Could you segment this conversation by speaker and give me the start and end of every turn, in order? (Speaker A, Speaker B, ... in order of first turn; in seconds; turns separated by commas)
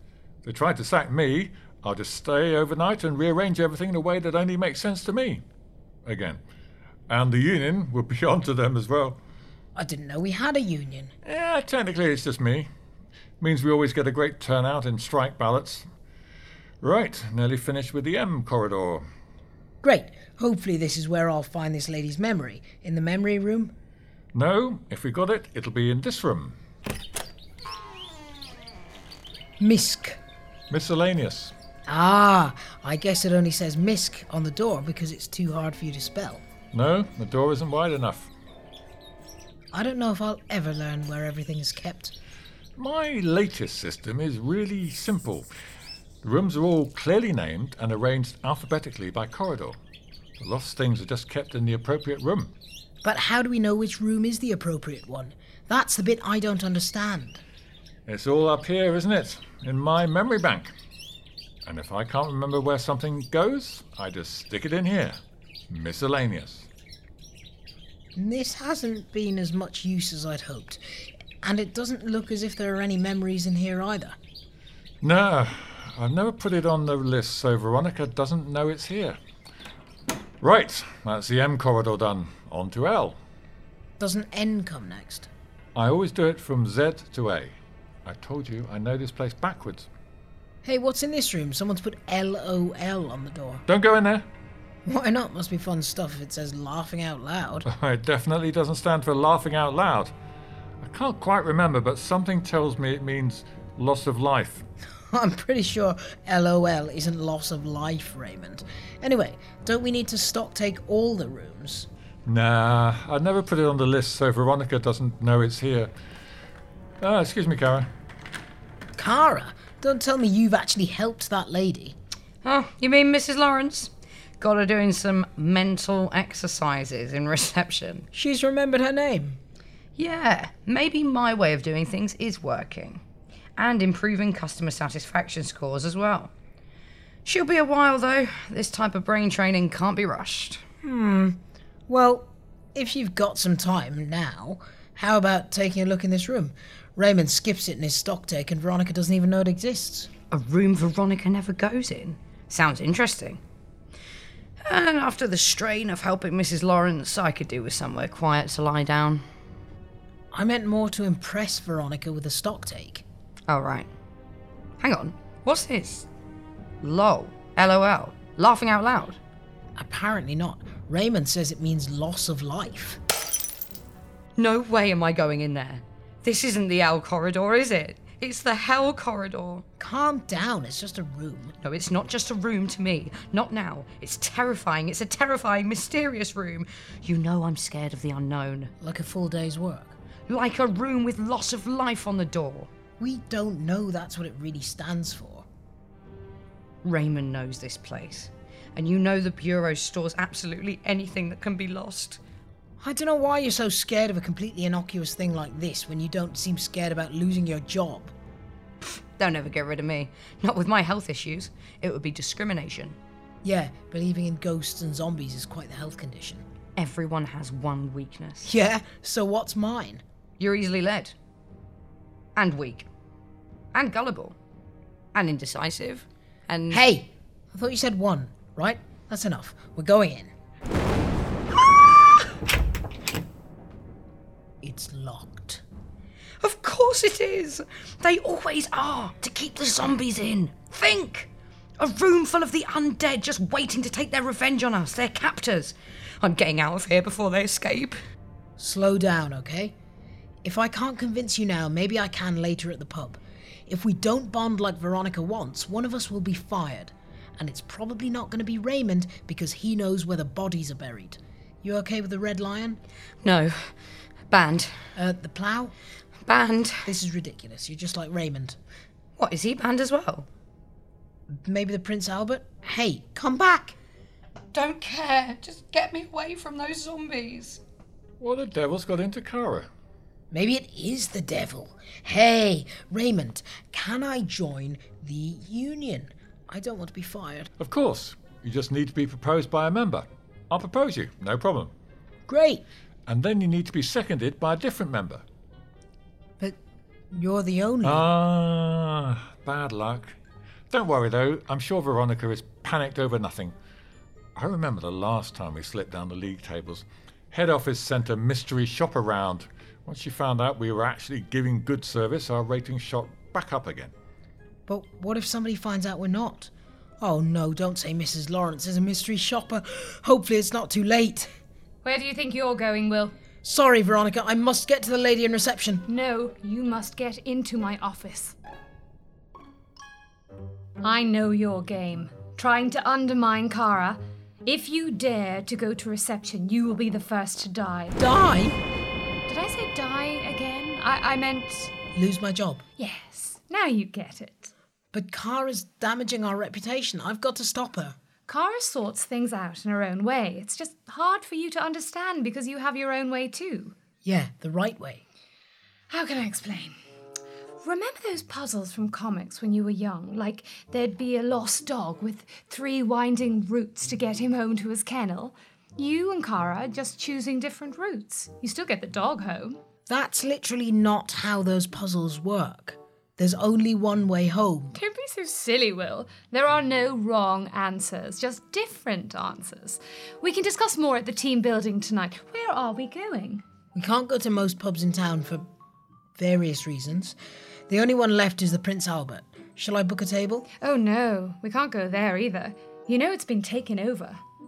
Speaker A: 0.4-5.4, Speaker A: 6.0-6.4, Speaker A: 7.1-9.2, Speaker B: 9.8-11.1, Speaker A: 11.2-12.7, Speaker A: 13.4-15.9, Speaker A: 16.8-19.1, Speaker B: 19.8-23.7, Speaker A: 24.3-26.6, Speaker B: 29.6-30.2, Speaker A: 30.7-31.5, Speaker B: 31.9-36.4, Speaker A: 36.7-38.3, Speaker B: 39.7-42.1, Speaker A: 42.8-45.5, Speaker A: 46.2-49.8, Speaker A: 50.4-52.5, Speaker B: 53.0-57.4, Speaker A: 58.1-60.7, Speaker A: 61.6-65.2, Speaker A: 65.7-66.7, Speaker B: 68.2-70.8, Speaker B: 71.4-74.2, Speaker A: 75.0-79.2, Speaker A: 80.4-83.2, Speaker B: 84.0-85.3, Speaker A: 85.8-89.9, Speaker B: 90.6-93.7, Speaker A: 93.7-94.3, Speaker B: 94.9-97.7, Speaker A: 97.7-100.1, Speaker A: 100.8-104.7, Speaker B: 105.1-111.9, Speaker A: 112.3-115.9, Speaker A: 117.0-117.9, Speaker B: 119.0-122.0, Speaker C: 122.4-128.1, Speaker B: 128.1-129.4, Speaker C: 130.0-133.0, Speaker C: 133.6-136.3, Speaker C: 137.3-140.6, Speaker B: 140.8-150.1, Speaker C: 150.3-153.4, Speaker C: 154.6-159.2, Speaker B: 160.3-163.0, Speaker C: 163.5-163.9, Speaker C: 164.8-166.1, Speaker C: 166.8-169.2, Speaker B: 169.8-173.0, Speaker C: 174.4-179.7, Speaker B: 179.8-181.6, Speaker C: 181.6-188.7, Speaker B: 188.8-190.0, Speaker C: 190.3-192.7, Speaker B: 193.0-195.5, Speaker C: 196.8-202.2, Speaker B: 202.8-208.1, Speaker C: 208.8-213.0, Speaker B: 213.4-216.4, Speaker C: 216.8-218.5, Speaker B: 218.4-220.0, Speaker C: 220.4-221.1, Speaker C: 222.4-222.9, Speaker C: 223.7-224.4, Speaker C: 225.1-226.8, Speaker B: 226.7-230.3, Speaker B: 234.6-235.6, Speaker C: 236.4-248.0, Speaker B: 248.6-249.8, Speaker B: 250.4-262.8, Speaker C: 263.2-263.7, Speaker C: 264.3-264.9, Speaker B: 265.0-265.7, Speaker C: 266.3-266.9, Speaker B: 266.8-268.6, Speaker C: 269.2-270.3, Speaker B: 271.3-273.8, Speaker C: 274.5-277.6, Speaker A: 278.2-279.7, Speaker B: 280.3-287.5, Speaker A: 287.6-291.7, Speaker B: 292.3-292.6, Speaker A: 293.1-295.2, Speaker B: 297.1-298.1, Speaker A: 297.8-300.2, Speaker A: 300.7-303.6, Speaker A: 304.4-313.9, Speaker B: 314.7-321.3, Speaker D: 321.8-323.1, Speaker B: 323.4-325.9, Speaker D: 325.9-328.4, Speaker D: 330.8-338.0, Speaker B: 338.0-338.6, Speaker D: 339.3-341.7, Speaker B: 341.9-342.6, Speaker D: 342.8-344.5, Speaker B: 344.9-348.0, Speaker D: 348.3-353.8, Speaker B: 354.0-355.0, Speaker D: 355.9-356.8, Speaker D: 357.6-369.6, Speaker B: 369.9-374.8, Speaker D: 374.8-383.4, Speaker B: 383.7-385.5, Speaker B: 386.2-387.2, Speaker B: 387.7-390.5, Speaker D: 390.6-394.2